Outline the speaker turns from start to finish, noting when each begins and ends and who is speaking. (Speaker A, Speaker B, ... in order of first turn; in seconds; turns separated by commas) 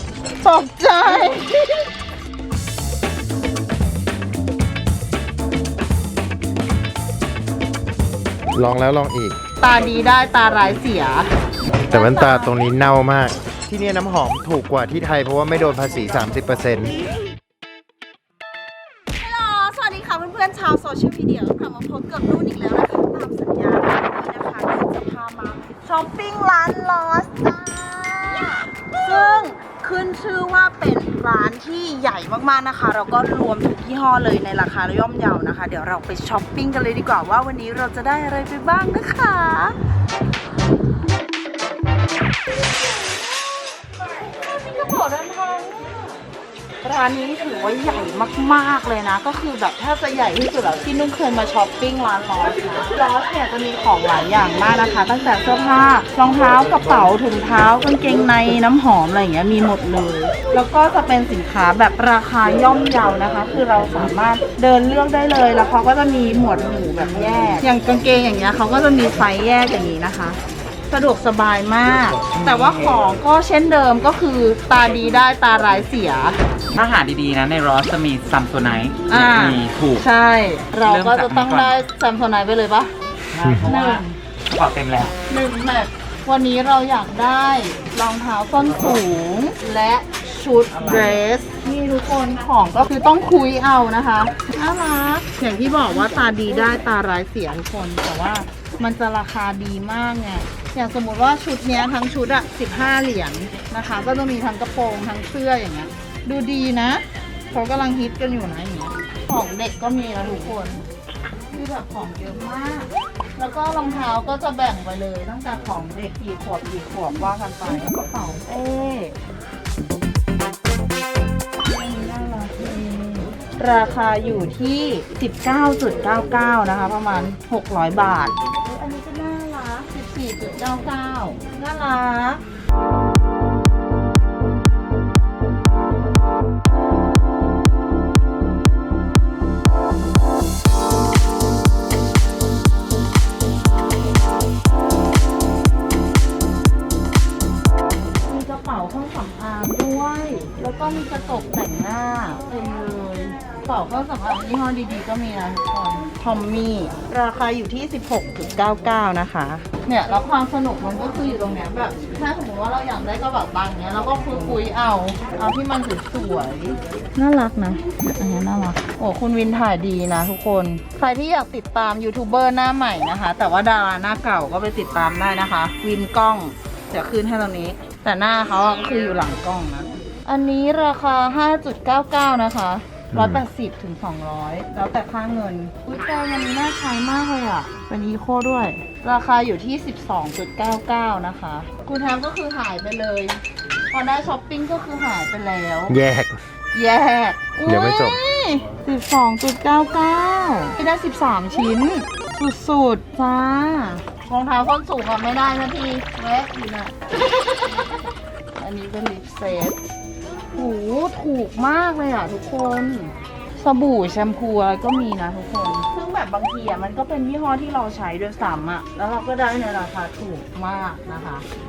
Speaker A: 0.4-1.5, Speaker B: 8.5-9.4, Speaker A: 9.6-11.3, Speaker B: 11.8-16.9, Speaker A: 11.9-12.6, Speaker A: 19.2-39.8, Speaker A: 44.5-46.0, Speaker A: 46.8-70.4, Speaker A: 70.9-76.4, Speaker C: 72.3-73.0, Speaker C: 76.7-80.0, Speaker A: 79.1-82.9, Speaker C: 80.8-81.8, Speaker C: 83.3-85.1, Speaker A: 83.6-84.2, Speaker A: 85.3-110.8, Speaker C: 90.7-91.2, Speaker A: 111.5-119.2, Speaker A: 121.6-132.4, Speaker A: 148.2-196.0, Speaker B: 183.1-183.4, Speaker B: 195.9-196.4, Speaker A: 196.7-209.8, Speaker B: 197.6-198.2, Speaker A: 210.5-221.4